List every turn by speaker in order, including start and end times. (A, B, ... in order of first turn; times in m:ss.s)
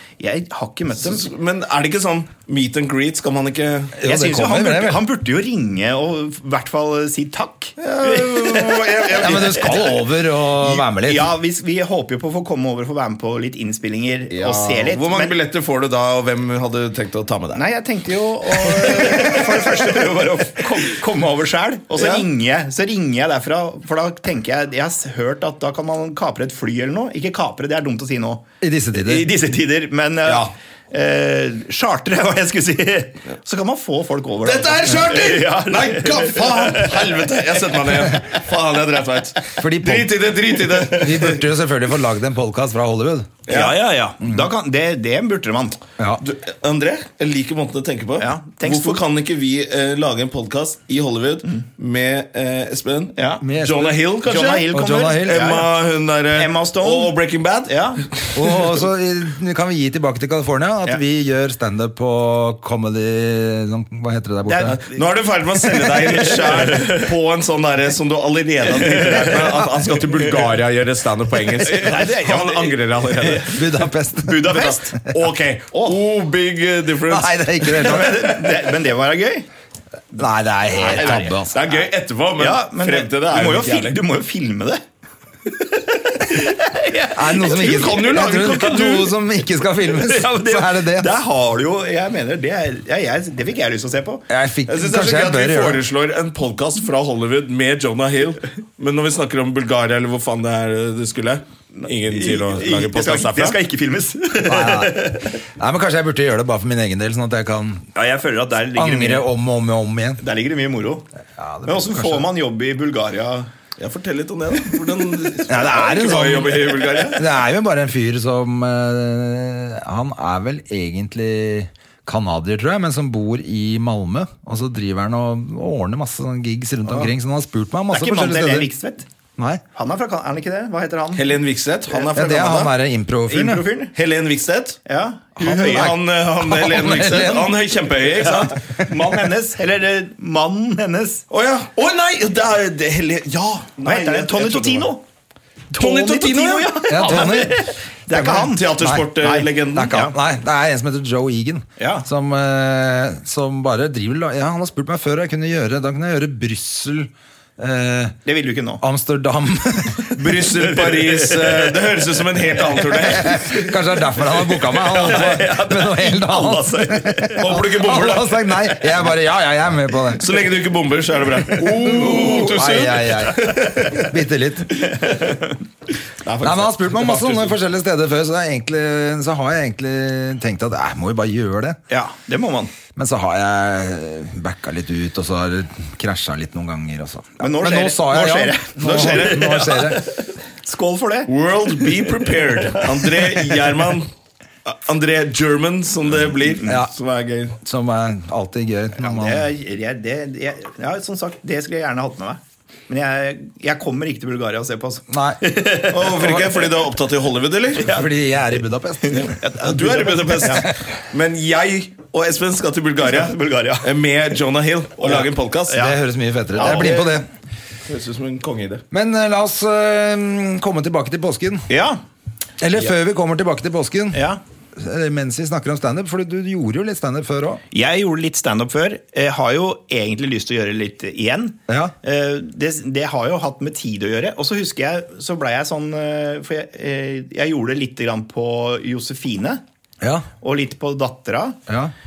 0:00.2-0:01.3 A
0:01.0-0:04.0 B
0:04.0-0:05.0 C
0:04.0-0:09.8 A
0:07.8-0:09.8 B
0:09.2-0:11.3 C
0:10.6-0:15.3 A
0:14.3-0:17.6 B
0:17.5-0:28.4 A
0:18.6-0:20.0 B
0:22.0-0:22.2 B
0:28.6-0:29.3 C
0:29.0-0:37.2 A
0:30.3-0:30.5 B
0:34.4-0:41.4 B
0:39.6-0:40.3 C
0:40.8-0:43.3 C
0:43.5-0:43.8 B
0:43.5-0:45.8 A
0:46.2-0:58.6 B
0:48.2-0:49.0 A
0:53.2-0:53.4 A
0:53.4-0:54.0 C
0:54.2-0:55.7 A
0:54.7-0:55.5 C
0:56.4-0:58.0 A
0:58.4-1:04.8 C
1:04.5-1:05.0 A
1:04.7-1:13.6 B
1:05.5-1:07.0 A
1:08.7-1:10.3 A
1:11.6-1:13.6 A
1:13.4-1:14.8 C
1:14.2-1:15.0 A
1:14.5-1:18.2 B
1:17.1-1:18.2 C
1:17.7-1:19.5 A
1:20.1-1:21.6 C
1:20.8-1:21.7 A
1:21.0-1:24.0 B
1:22.4-1:24.8 A
1:25.5-1:28.6 A
1:27.2-1:31.1 C
1:27.4-1:29.1 B
1:29.9-1:34.2 A
1:34.3-1:35.8 C
1:34.7-1:43.6 B
1:41.8-1:45.4 A
1:44.4-1:47.9 C
1:48.0-1:49.3 A
1:48.8-1:50.2 C
1:50.2-1:51.1 A
1:51.4-1:52.3 C
1:51.7-1:53.5 A
1:53.8-1:57.3 B
1:55.5-2:08.7 C
2:07.9-2:09.1 A
2:09.4-2:09.6 C
2:09.7-2:11.4 A
2:11.2-2:12.7 B
2:12.1-2:13.6 C
2:13.3-2:13.9 A
2:13.9-2:14.8 B
2:14.9-2:15.9 A
2:15.4-2:17.5 C
2:15.4-2:18.6 B
2:18.2-2:21.2 A
2:21.3-2:24.9 B
2:23.8-2:25.0 A
2:25.7-2:30.2 A
2:25.8-2:27.4 B
2:26.9-2:27.6 C
2:28.1-2:29.9 B
2:28.8-2:29.1 C
2:29.8-2:38.2 C
2:31.8-2:32.1 A
2:38.2-2:38.8 A
2:38.8-2:40.1 C
2:40.2-2:43.4 B
2:40.3-2:42.0 A
2:42.8-2:43.7 A
2:43.1-2:50.2 C
2:44.5-2:47.6 A
2:47.4-2:48.8 B
2:50.2-2:54.0 B
2:51.8-2:54.7 C
2:55.1-2:55.5 A
2:56.2-2:57.6 B
2:56.4-3:01.8 C
3:01.9-3:02.7 A
3:03.0-3:10.0 C
3:07.4-3:11.3 A
3:08.8-3:09.8 B
3:11.3-3:14.1 B
3:12.7-3:13.1 A
3:14.7-3:17.6 B
3:16.6-3:16.9 C
3:17.6-3:19.5 C
3:19.0-3:26.4 A
3:25.1-3:25.4 C
3:25.9-3:27.9 B
3:26.2-3:26.4 C
3:27.8-3:29.3 C
3:29.0-3:30.7 A
3:29.1-3:35.8 B
3:33.0-3:33.9 A
3:35.0-3:36.0 A
3:35.7-3:37.3 C
3:36.6-3:37.1 A
3:36.6-3:37.1 B
3:37.9-3:38.8 B
3:38.9-3:41.7 C
3:41.7-3:42.0 A
3:42.6-3:44.2 C
3:44.1-3:44.4 A
3:44.8-3:47.6 C
3:47.7-3:59.6 A
3:51.7-3:51.9 C
4:00.0-4:00.3 C
4:00.4-4:01.6 A
4:01.7-4:01.9 C